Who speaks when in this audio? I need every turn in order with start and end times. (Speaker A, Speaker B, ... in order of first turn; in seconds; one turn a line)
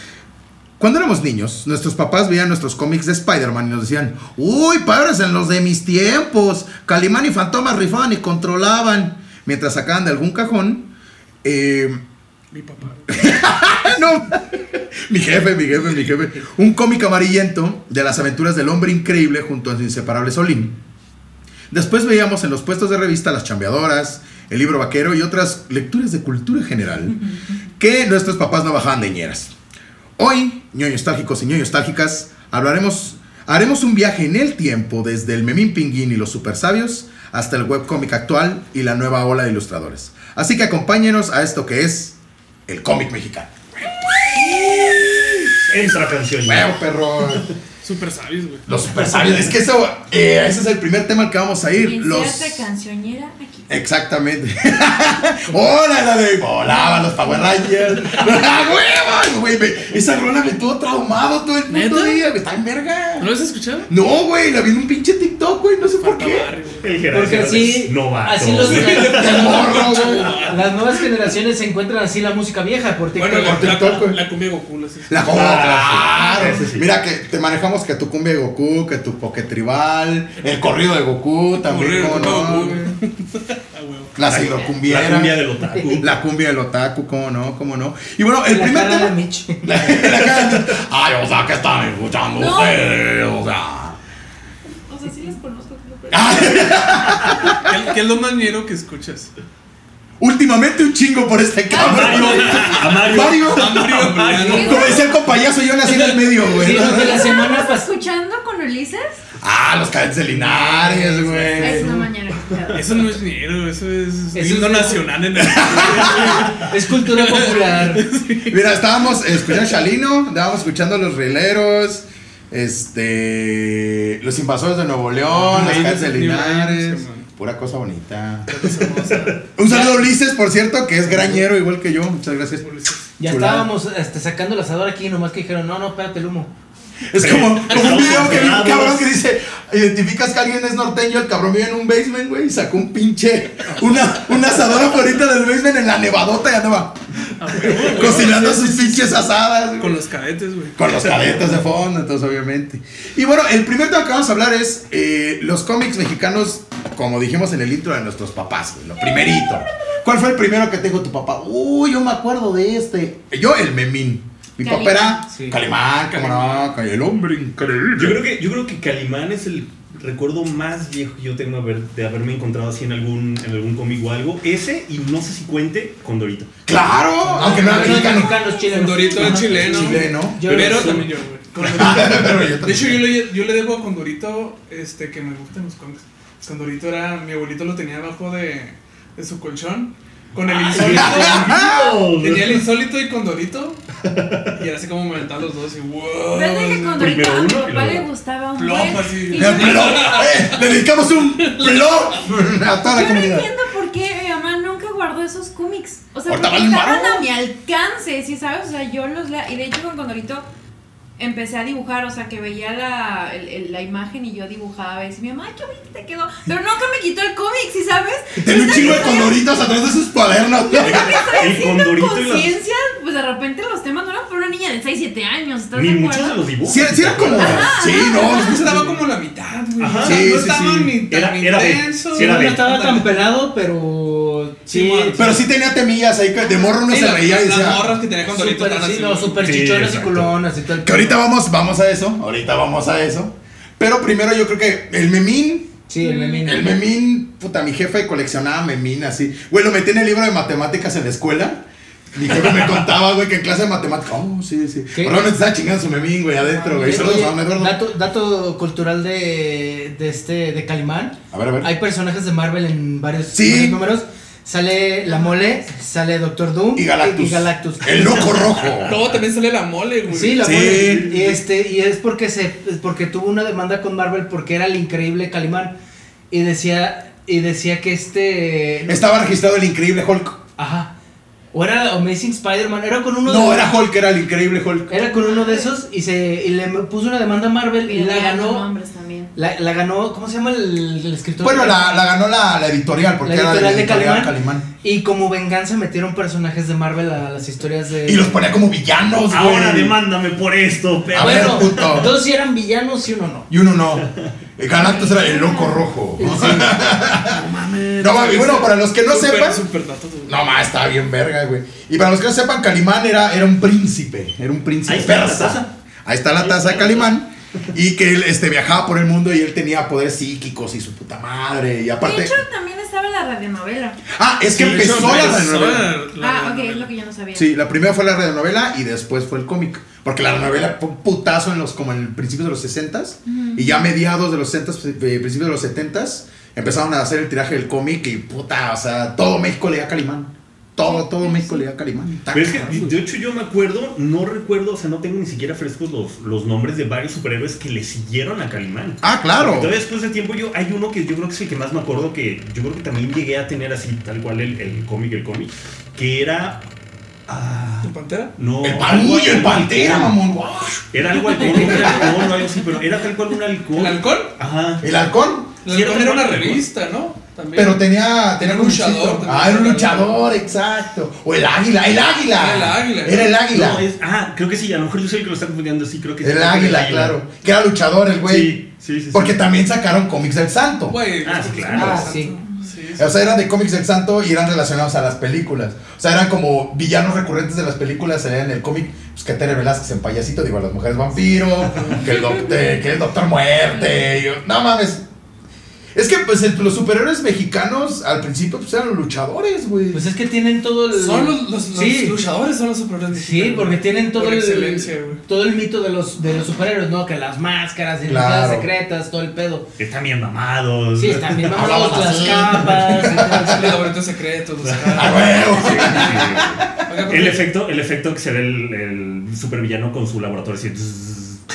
Speaker A: 0.8-10.9
Speaker A: 11.4-12.0
Speaker B: 12.5-13.4
Speaker A: 13.1-20.8
Speaker A: 21.7-27.2
Speaker A: 27.8-29.5
Speaker A: 30.2-42.2
Speaker A: 42.7-43.5
Speaker B: 44.3-45.6
Speaker A: 44.4-47.5
Speaker C: 45.7-46.7
Speaker B: 47.8-48.7
Speaker A: 48.7-52.7
Speaker D: 51.8-53.7
Speaker A: 53.7-63.3
Speaker D: 56.7-57.6
Speaker B: 61.7-62.2
Speaker B: 63.2-63.9
Speaker A: 63.9-66.5
Speaker B: 66.0-66.9
Speaker C: 66.8-69.7
Speaker E: 67.1-69.3
Speaker B: 68.6-70.8
Speaker A: 68.8-70.5
Speaker E: 70.4-73.8
Speaker B: 73.2-75.5
Speaker A: 73.4-74.2
Speaker A: 75.1-82.9
Speaker C: 75.3-76.9
Speaker D: 76.1-76.5
Speaker B: 81.6-84.2
Speaker A: 84.2-85.4
Speaker C: 84.2-86.2
Speaker A: 86.0-94.0
Speaker E: 88.5-89.8
Speaker C: 90.4-90.8
Speaker D: 92.3-92.8
Speaker D: 94.9-97.1
Speaker A: 96.1-97.7
Speaker B: 97.5-99.3
Speaker A: 100.2-107.3
Speaker C: 101.7-105.1
Speaker D: 101.9-102.7
Speaker B: 102.1-105.0
Speaker D: 104.4-105.2
Speaker E: 106.5-107.9
Speaker D: 106.7-109.2
Speaker A: 109.4-112.0
Speaker E: 110.4-111.9
Speaker D: 111.5-113.1
Speaker B: 112.7-118.6
Speaker E: 114.3-115.1
Speaker A: 115.3-116.5
Speaker C: 116.1-116.6
Speaker E: 116.6-118.1
Speaker A: 118.5-128.7
Speaker E: 125.3-125.9
Speaker B: 125.5-127.3
Speaker C: 125.6-125.9
Speaker B: 128.5-129.8
Speaker C: 129.0-129.3
Speaker A: 129.6-132.7
Speaker B: 132.6-133.0
Speaker E: 133.2-136.5
Speaker A: 133.2-133.7
Speaker A: 137.1-150.0
Speaker C: 137.2-139.2
Speaker B: 143.7-144.2
Speaker B: 147.3-149.2
Speaker C: 147.9-148.4
Speaker B: 149.8-150.8
Speaker A: 150.8-168.2
Speaker D: 164.6-165.3
Speaker E: 165.3-165.6
Speaker B: 166.1-166.7
Speaker C: 167.9-176.5
Speaker A: 176.7-178.4
Speaker E: 177.3-181.0
Speaker B: 177.3-193.8
Speaker A: 179.2-180.4
Speaker C: 180.5-181.1
Speaker A: 181.6-183.1
Speaker C: 181.6-182.2
Speaker C: 190.4-192.7
Speaker A: 190.8-192.0
Speaker C: 194.0-194.6
Speaker B: 194.6-197.1
Speaker D: 196.3-200.3
Speaker C: 197.0-198.1
Speaker B: 198.6-200.6
Speaker A: 199.3-203.5
Speaker B: 201.4-202.4
Speaker D: 202.9-210.4
Speaker A: 206.3-207.3
Speaker D: 211.2-219.4
Speaker A: 218.4-221.4
Speaker C: 218.7-219.1
Speaker D: 220.7-226.4
Speaker C: 220.8-222.6
Speaker C: 225.7-227.8
Speaker A: 226.7-229.0
Speaker D: 227.3-228.6
Speaker B: 228.1-233.1
Speaker C: 229.8-230.5
Speaker A: 230.0-231.0
Speaker C: 231.1-232.7
Speaker E: 232.1-235.3
Speaker B: 234.7-235.4
Speaker A: 235.2-238.0
Speaker D: 236.4-236.8
Speaker B: 236.8-239.5
Speaker E: 238.2-241.2
Speaker C: 239.4-240.3
Speaker A: 240.8-245.7
Speaker E: 245.9-246.7
Speaker D: 246.0-246.5
Speaker A: 246.4-257.8
Speaker E: 254.9-255.2
Speaker E: 256.4-268.4
Speaker A: 261.3-261.7
Speaker A: 263.3-263.8
Speaker A: 266.8-269.0
Speaker C: 268.6-269.2
Speaker B: 268.9-270.9
Speaker E: 270.1-275.8
Speaker A: 270.4-271.4
Speaker E: 276.3-279.1
Speaker A: 278.9-280.4
Speaker E: 280.6-280.9
Speaker E: 281.5-283.8
Speaker A: 283.2-285.0
Speaker E: 284.9-288.7
Speaker D: 285.1-285.7
Speaker D: 287.8-289.3
Speaker E: 289.4-291.9
Speaker A: 291.4-294.7
Speaker E: 293.2-298.4
Speaker A: 298.1-300.0
Speaker C: 299.3-302.0
Speaker A: 301.1-302.1
Speaker E: 301.1-303.5
Speaker A: 303.5-307.5
Speaker C: 304.0-304.3
Speaker D: 304.7-305.8
Speaker E: 306.2-306.9
Speaker B: 307.2-310.7
Speaker A: 308.0-309.6
Speaker A: 310.3-322.4
Speaker C: 314.9-315.7
Speaker C: 316.4-317.1
Speaker D: 322.0-324.1
Speaker A: 324.1-325.9
Speaker B: 324.5-326.9
Speaker C: 324.6-325.4
Speaker D: 326.2-327.5
Speaker A: 327.4-343.0
Speaker D: 333.3-333.8
Speaker D: 340.8-341.7
Speaker C: 342.3-356.6
Speaker A: 349.0-349.7
Speaker C: 357.3-360.2
Speaker B: 357.8-358.3
Speaker A: 358.6-362.2
Speaker C: 360.9-364.9
Speaker B: 363.8-364.3
Speaker A: 364.8-365.5
Speaker B: 365.6-370.1
Speaker C: 365.7-366.7
Speaker A: 367.6-373.9
Speaker B: 372.3-373.4
Speaker C: 373.5-377.2
Speaker A: 376.2-381.0
Speaker C: 378.2-379.4
Speaker B: 380.9-383.1
Speaker C: 381.2-382.2
Speaker E: 381.7-382.4
Speaker A: 383.0-395.0
Speaker B: 391.6-392.3
Speaker A: 395.9-400.0
Speaker E: 399.9-402.2
Speaker B: 400.9-405.2
Speaker E: 403.1-409.7
Speaker A: 408.1-408.7
Speaker C: 409.8-411.7
Speaker E: 411.0-413.7
Speaker A: 411.5-413.8
Speaker B: 413.2-417.4
Speaker C: 414.6-421.4
Speaker A: 414.9-416.6